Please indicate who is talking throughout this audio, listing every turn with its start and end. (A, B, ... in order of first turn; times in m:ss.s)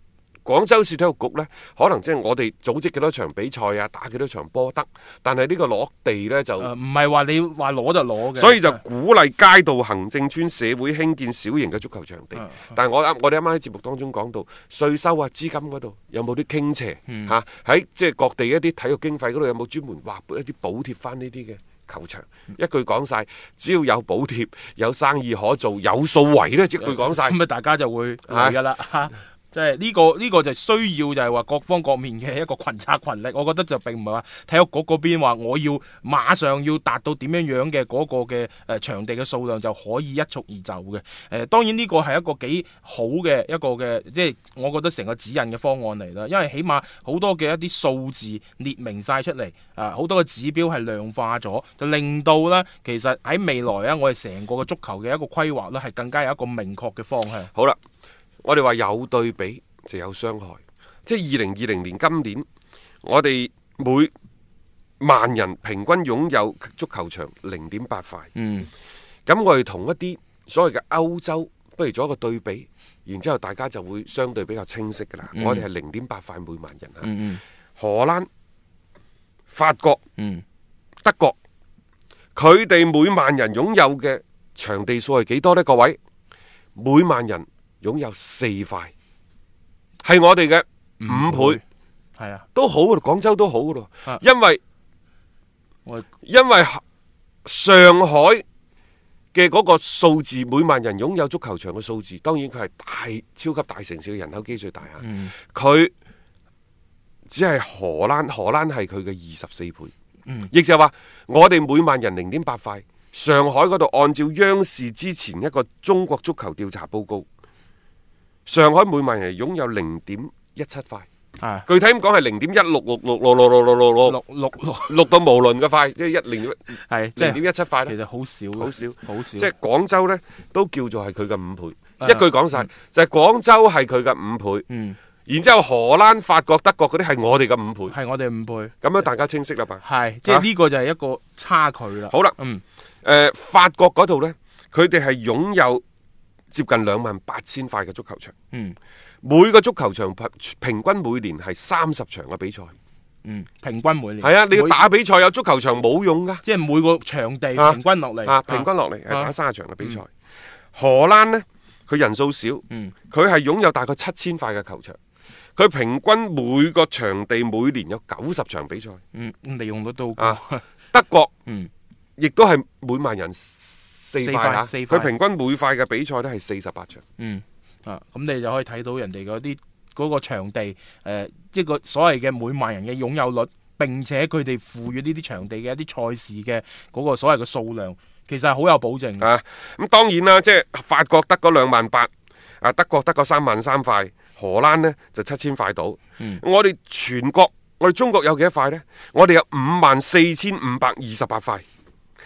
0:00.4-0:06.7 A
0:06.6-0:08.8 B
0:08.3-0:27.4 A
0:12.4-0:12.7 B
0:17.1-0:17.3 B
0:26.8-0:57.5 B
0:28.3-0:28.6 A
0:58.4-1:02.4 A
1:03.0-1:04.1 A
1:05.0-1:08.3 A
1:08.3-1:08.7 B
1:09.2-1:17.1 A
1:15.3-1:15.6 B
1:17.0-1:17.4 B
1:17.8-1:18.3 A
1:19.5-1:20.0 A
1:20.2-1:20.4 B
1:21.0-1:21.4 A
1:22.4-1:26.0 A
1:26.8-1:28.9 A
1:30.0-1:31.6 A
1:31.0-1:31.6 B
1:32.2-1:32.4 B
1:32.5-1:34.6 A
1:36.2-1:36.8 A
1:37.4-1:38.4 A
1:39.3-1:45.9 A
1:45.0-1:45.3 B
1:47.3-1:49.9 A
1:50.5-1:57.2 A
1:58.5-2:01.1 A
2:01.4-2:01.6 B
2:01.6-2:04.2 A
2:04.1-2:05.0 B
2:04.8-2:06.6 A
2:06.7-2:09.5 B
2:07.2-2:07.9 A
2:08.6-2:14.6 A
2:14.7-2:15.0 B
2:15.3-2:18.0 A
2:17.9-2:18.7 B
2:18.8-2:20.4 A
2:19.8-2:22.6 B
2:22.1-2:22.4 A
2:23.0-2:25.8 A
2:26.5-2:28.3 A
2:28.5-2:28.8 B
2:29.2-2:32.7 A
2:33.2-2:34.8 B
2:34.2-2:36.4 A
2:36.4-2:39.3 B
2:37.6-2:40.1 A
2:40.7-2:45.0 A
2:45.6-2:49.0 A
2:49.1-2:50.7 B
2:50.9-2:51.3 A
2:52.2-2:57.0 A
2:54.2-2:55.1 B
2:57.2-3:09.3 B
3:09.2-3:12.1 A
3:12.6-3:21.6 A